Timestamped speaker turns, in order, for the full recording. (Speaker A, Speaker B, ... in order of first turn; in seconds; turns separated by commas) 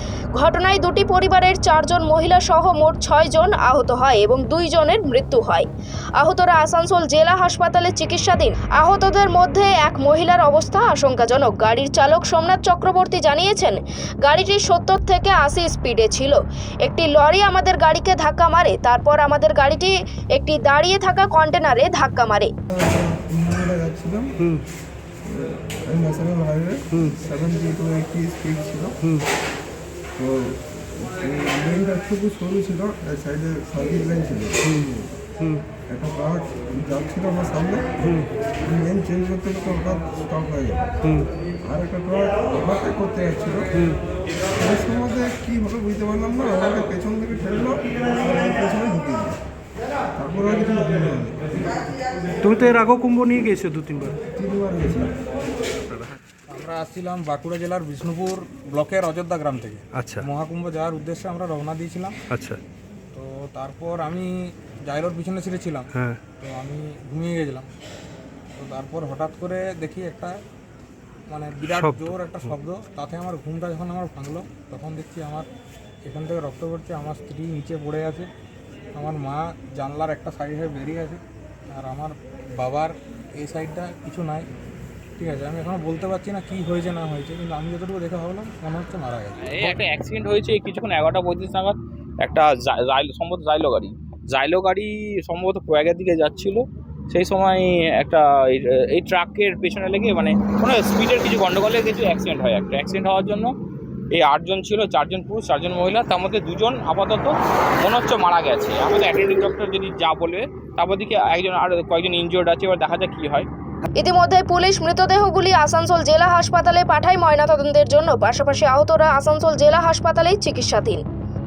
Speaker A: 0.3-5.7, Speaker A: 6.2-22.5, Speaker B: 22.7-24.5, Speaker B: 25.2-29.1, Speaker B: 30.2-34.9, Speaker B: 35.9-40.9, Speaker B: 41.6-43.9, Speaker B: 44.6-49.4, Speaker B: 50.2-51.8, Speaker C: 52.4-54.2, Speaker B: 54.2-55.2, Speaker D: 56.5-62.2, Speaker C: 59.9-60.3, Speaker C: 62.3-62.6, Speaker D: 63.1-64.3, Speaker D: 64.9-67.7, Speaker C: 66.0-66.2, Speaker D: 68.6-70.4, Speaker D: 71.3-75.5, Speaker C: 71.7-72.5, Speaker D: 76.0-78.3, Speaker D: 79.0-84.5, Speaker D: 85.2-89.8, Speaker E: 89.5-103.5, Speaker E: 104.1-113.5, Speaker A: 114.0-121.0